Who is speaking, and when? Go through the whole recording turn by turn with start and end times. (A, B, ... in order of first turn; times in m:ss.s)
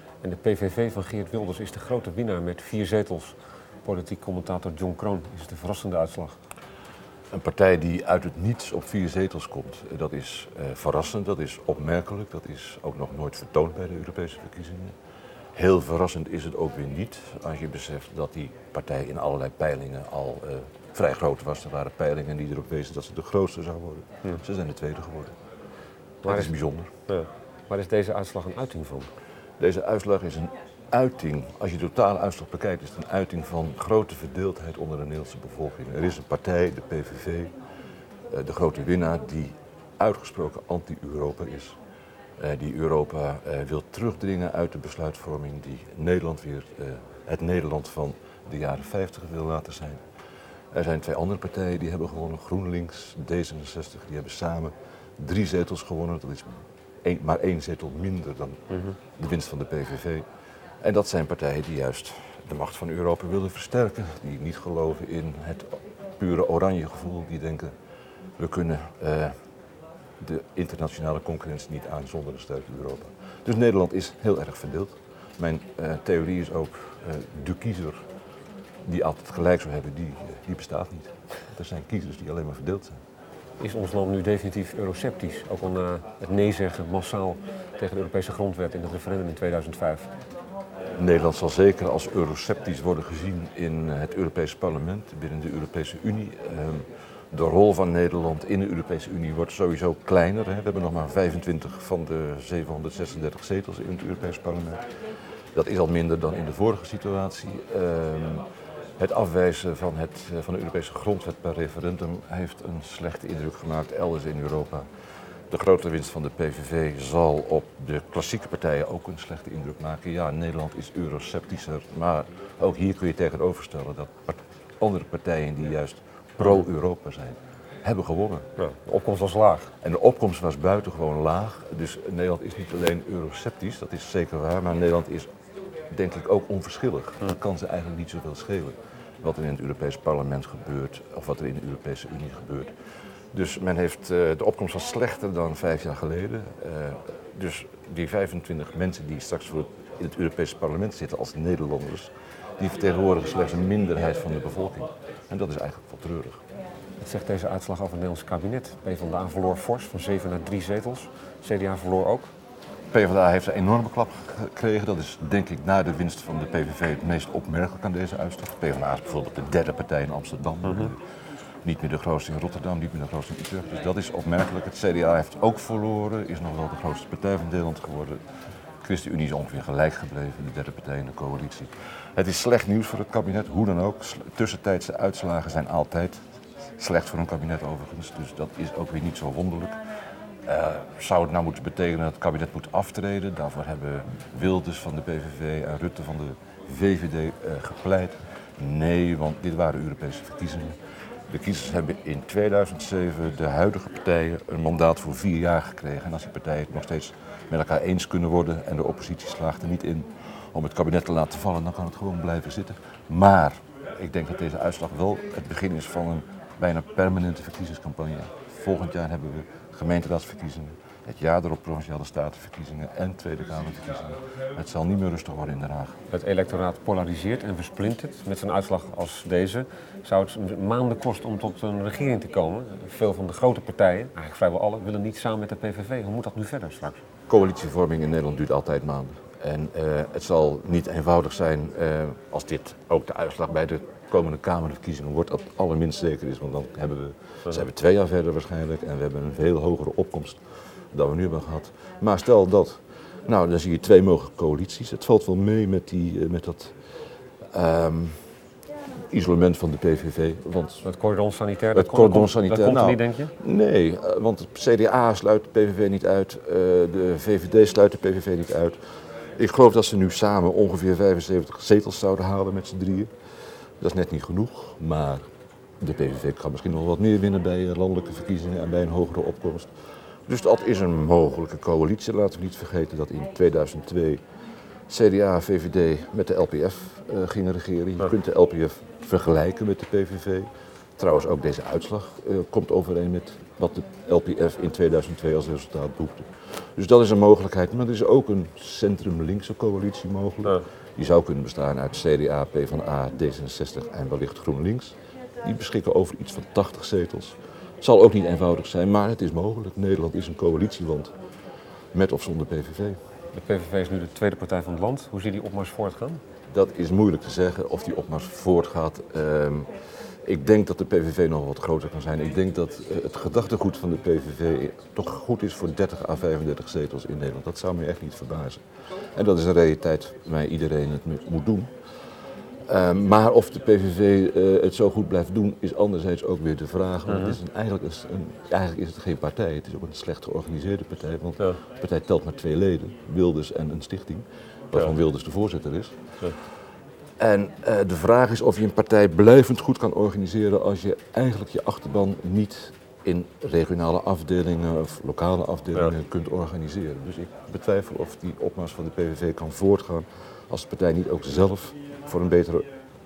0:00.2-0:06.4 A
0:07.3-0:15.0 B
0:15.5-0:25.4 B
0:26.2-0:26.5 A
0:26.2-0:26.9 B
0:27.1-0:29.1 A
0:29.6-0:37.5 B
0:38.3-0:41.8 B
0:42.4-1:00.3 B
1:00.8-1:07.7 B
1:08.4-1:09.3 B
1:10.2-1:18.0 B
1:18.8-1:23.0 B
1:23.6-1:30.1 A
1:30.9-2:08.4 B
2:08.6-2:09.7 A
2:09.8-2:15.3 B
2:15.9-2:36.4 B
2:37.0-2:42.3 A
2:42.9-3:06.3 B
2:50.6-2:50.9 A
3:06.8-3:46.0 B
3:46.1-3:57.0 A
3:57.3-4:18.4 B
4:19.1-4:20.9 B
4:20.8-4:23.3 A
4:21.7-4:35.2 B
4:35.8-4:44.2 B
4:44.9-5:11.2 B
5:11.9-5:13.0 B
5:13.3-5:16.2 A
5:16.5-6:02.7 B
5:37.1-5:37.4 A